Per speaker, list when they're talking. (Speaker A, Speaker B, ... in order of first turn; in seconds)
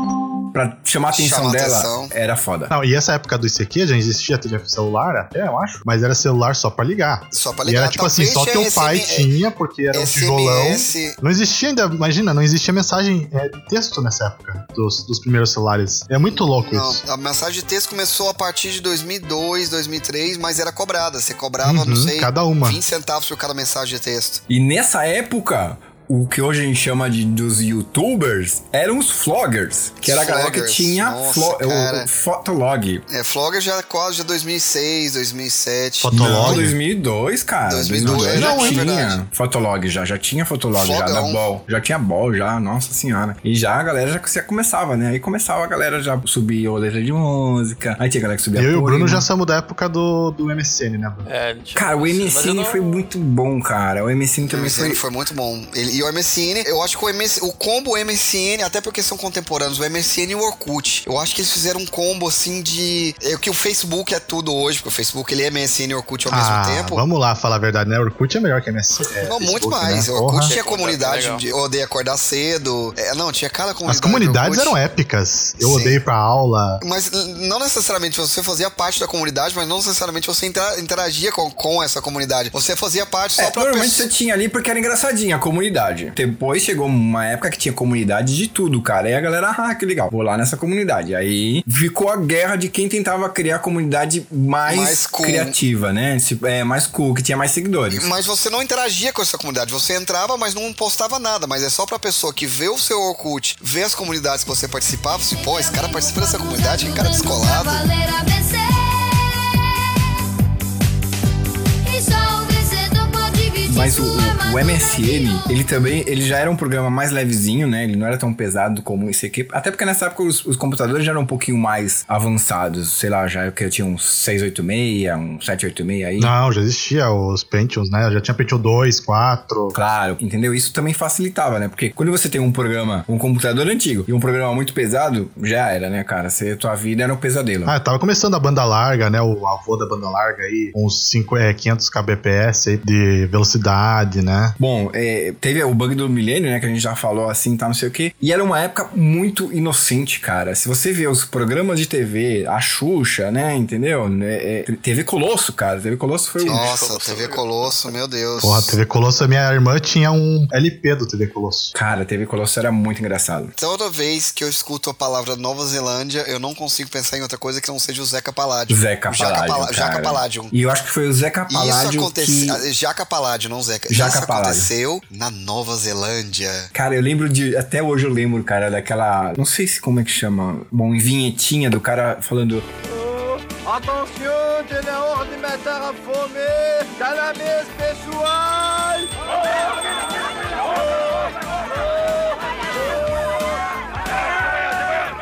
Speaker A: 0.5-2.7, 24.5-33.0, 36.1-49.3, 51.8-55.0, 83.4-98.1, 113.7-126.3, 129.7-137.8, 144.6-156.8, 161.7-163.5, 168.7-172.6, 173.9-174.7, 176.7-182.7
Speaker B: 1.1-2.1, 7.3-9.3, 9.9-11.2, 16.3-24.4, 30.0-32.1, 33.1-36.7, 37.7-39.2, 40.8-41.4, 54.5-67.0, 69.2-74.8, 75.6-76.0, 76.8-84.1, 94.7-95.6, 97.9-107.8, 156.5-158.8, 163.6-170.5, 171.5-176.7
Speaker C: 2.7-17.0, 21.6-22.8, 36.0-36.8, 38.0-38.9, 48.5-51.3, 66.3-70.5, 73.8-76.8, 126.2-129.8, 137.7-144.6, 158.4-161.7
Speaker D: 51.3-52.8, 70.5-71.4, 156.4-157.9
Speaker E: 105.2-110.2, 111.8-115.5
Speaker F: 182.8-189.1, 190.7-192.4